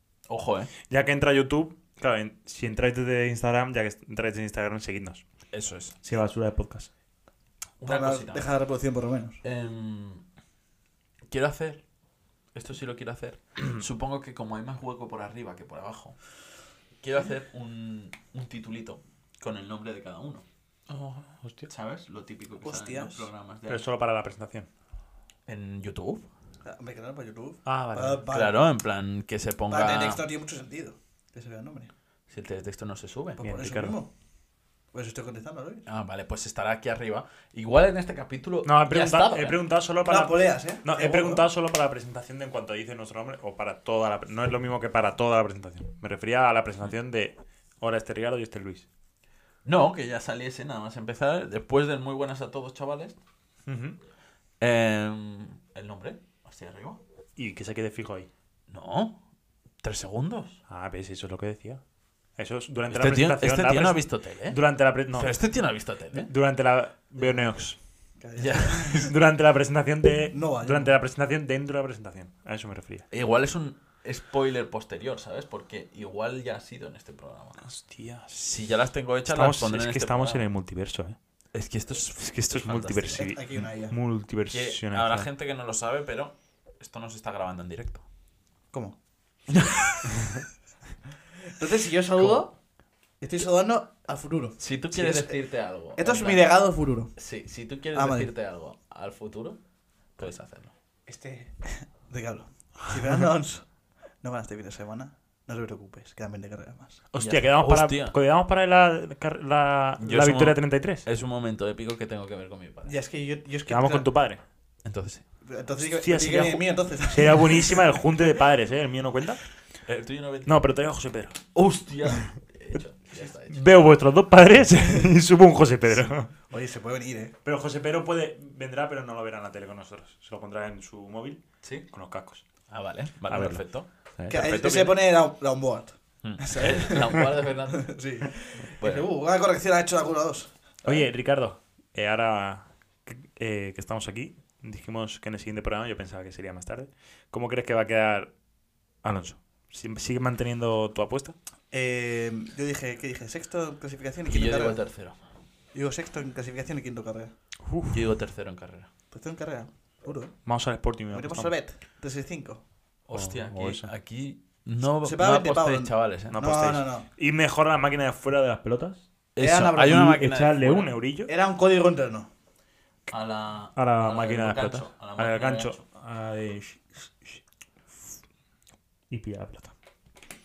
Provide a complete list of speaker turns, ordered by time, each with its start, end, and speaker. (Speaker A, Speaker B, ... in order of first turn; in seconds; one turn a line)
Speaker A: 0.3-0.7
Speaker B: 0.9-5.2
Speaker A: 5.5-6.0
Speaker B: 6.0-6.9
Speaker A: 7.8-8.5
Speaker C: 7.9-9.4
Speaker A: 9.4-10.2
Speaker A: 11.3-11.8
Speaker A: 12.5-16.2
Speaker A: 17.0-20.4
Speaker B: 20.9-21.7
Speaker A: 21.7-23.9
Speaker C: 22.6-23.3
Speaker B: 23.7-24.7
Speaker A: 25.5-26.3
Speaker C: 26.6-28.6
Speaker B: 27.7-28.2
Speaker A: 28.3-30.2
Speaker C: 29.7-31.9
Speaker A: 32.3-33.4
Speaker C: 33.4-34.1
Speaker B: 33.4-34.0
Speaker C: 34.9-35.8
Speaker A: 35.9-39.6
Speaker B: 38.6-48.9
Speaker C: 40.1-41.5
Speaker A: 49.6-53.2
Speaker B: 53.7-54.0
Speaker A: 54.6-57.0
Speaker B: 57.4-58.3
Speaker A: 58.7-59.2
Speaker A: 59.8-60.6
Speaker B: 60.7-61.8
Speaker B: 62.4-67.8
Speaker A: 62.9-66.3
Speaker C: 68.2-69.1
Speaker A: 68.4-69.1
Speaker B: 69.0-73.0
Speaker C: 70.3-71.0
Speaker A: 73.1-77.7
Speaker B: 77.6-78.4
Speaker A: 78.3-80.5
Speaker B: 79.3-81.2
Speaker A: 81.5-83.3
Speaker B: 82.2-85.3
Speaker C: 83.2-84.0
Speaker A: 84.5-88.0
Speaker C: 88.7-89.0
Speaker A: 89.5-90.1
Speaker C: 91.5-92.5
Speaker A: 92.2-92.5
Speaker C: 93.2-95.4
Speaker A: 94.6-96.5
Speaker C: 95.9-97.1
Speaker A: 97.2-99.6
Speaker C: 97.9-98.3
Speaker A: 100.2-100.7
Speaker C: 101.1-107.1
Speaker B: 107.1-111.0
Speaker A: 107.2-108.2
Speaker A: 110.0-113.0
Speaker C: 112.8-114.1
Speaker B: 113.7-114.4
Speaker A: 114.8-115.2
Speaker C: 115.5-117.8
Speaker B: 115.8-119.5
Speaker A: 119.9-120.7
Speaker B: 120.5-121.4
Speaker A: 121.5-123.9
Speaker B: 123.5-126.3
Speaker C: 126.5-127.3
Speaker B: 127.5-132.4
Speaker A: 132.7-135.0
Speaker B: 133.3-133.6
Speaker C: 134.3-141.1
Speaker A: 136.2-137.9
Speaker A: 138.8-139.1
Speaker B: 140.8-148.3
Speaker B: 149.0-151.3
Speaker C: 151.7-154.8
Speaker A: 154.3-155.2
Speaker C: 155.7-157.3
Speaker B: 157.6-158.0
Speaker A: 157.9-158.9
Speaker C: 159.1-160.4
Speaker B: 160.5-161.5
Speaker C: 161.1-162.6
Speaker A: 163.1-166.8
Speaker B: 163.1-163.9
Speaker C: 165.0-167.1
Speaker B: 166.3-169.0
Speaker A: 169.4-171.0
Speaker C: 169.4-170.2
Speaker B: 169.8-171.3
Speaker C: 171.3-172.3
Speaker A: 173.1-175.8
Speaker B: 173.8-177.4
Speaker B: 179.1-179.7